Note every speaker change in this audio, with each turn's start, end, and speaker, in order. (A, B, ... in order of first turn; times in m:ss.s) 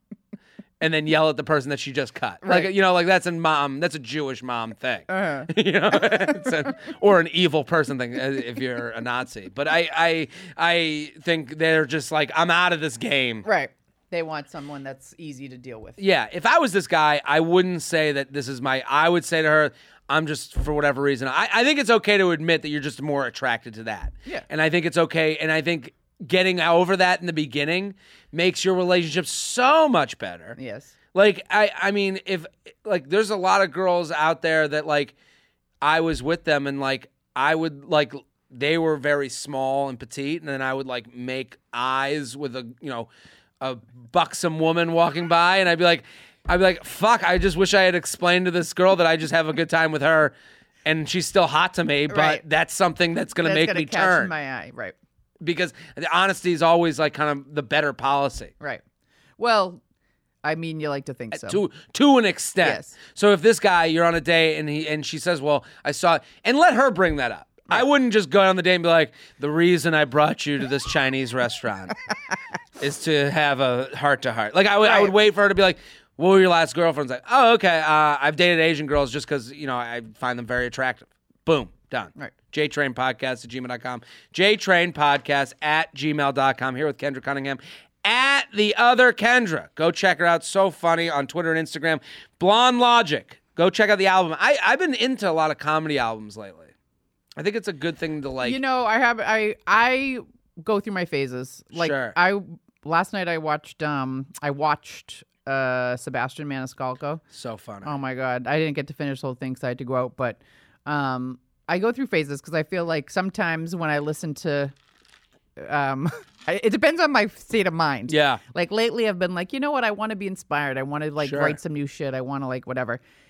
0:00.8-0:13.4 A
0:02.4-0:02.7 B
0:05.1-0:05.5 B
0:13.4-0:16.0 B
0:16.0-0:30.6 A
0:30.6-0:30.9 B
0:31.1-0:35.1 A
0:35.8-0:43.1 A
0:43.6-0:50.3 A
0:50.8-0:54.3 A
0:52.1-0:52.4 B
0:53.4-0:55.0 B
0:55.4-0:58.5 A
0:59.4-0:59.8 B
1:00.4-1:01.6 B
1:01.3-1:11.9 A
1:02.6-1:03.0 B
1:12.8-1:36.7 A
1:14.8-1:15.1 B
1:37.4-1:38.6 A
1:38.4-1:47.2 B
1:41.7-1:42.2 A
1:47.3-1:47.9 A
1:47.8-1:54.7 B
1:55.6-2:03.0 B
1:58.1-1:58.4 A
2:01.2-2:01.6 A